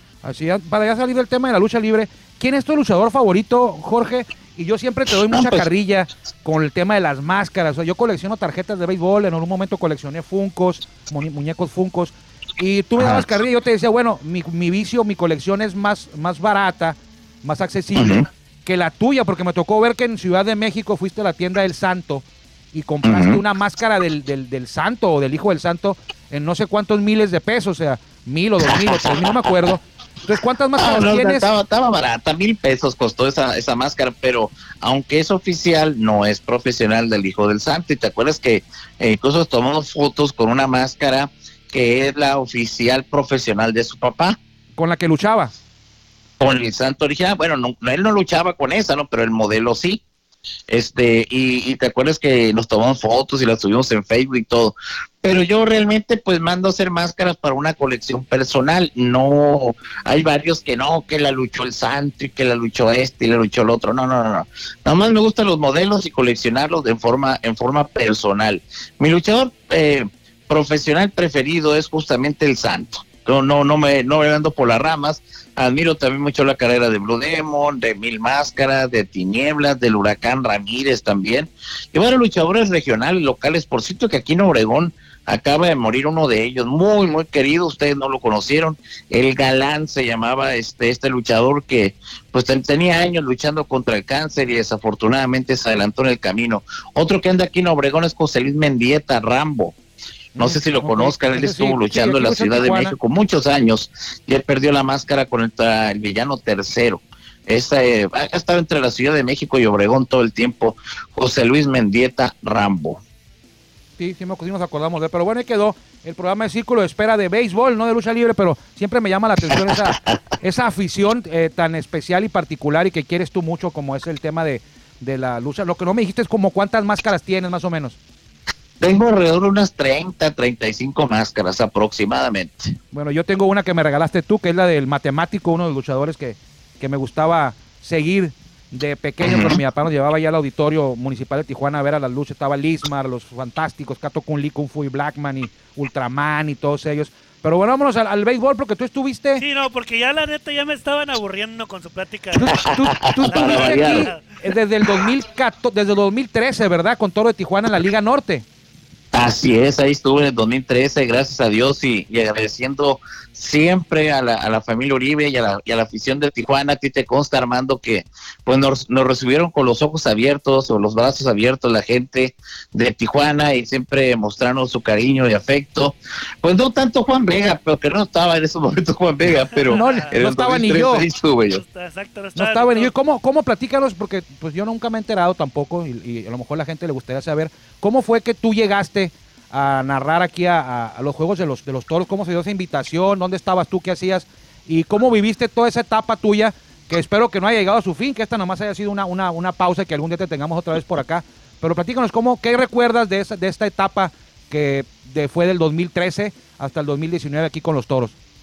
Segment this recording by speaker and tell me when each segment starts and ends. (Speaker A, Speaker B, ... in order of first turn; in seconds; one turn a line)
Speaker A: 0.2-31.5
Speaker B: 5.3-5.7
Speaker B: 13.0-13.3
Speaker B: 17.9-18.2
Speaker B: 23.0-23.4
Speaker B: 28.6-29.7
Speaker B: 30.8-44.4
Speaker A: 44.8-45.5
Speaker B: 46.4-50.0
Speaker B: 50.7-99.7
Speaker A: 100.3-103.0
Speaker B: 100.4-113.0
Speaker A: 114.0-128.0
Speaker B: 119.5-120.2
Speaker B: 128.8-132.8
Speaker A: 132.9-149.4
Speaker B: 139.2-139.6
Speaker C: 149.4-152.6
Speaker A: 152.3-158.4
Speaker B: 152.6-154.1
Speaker C: 153.3-154.2
Speaker B: 159.1-181.6
Speaker C: 179.5-180.1
Speaker A: 179.7-181.1
Speaker C: 181.5-182.9
Speaker A: 182.3-208.1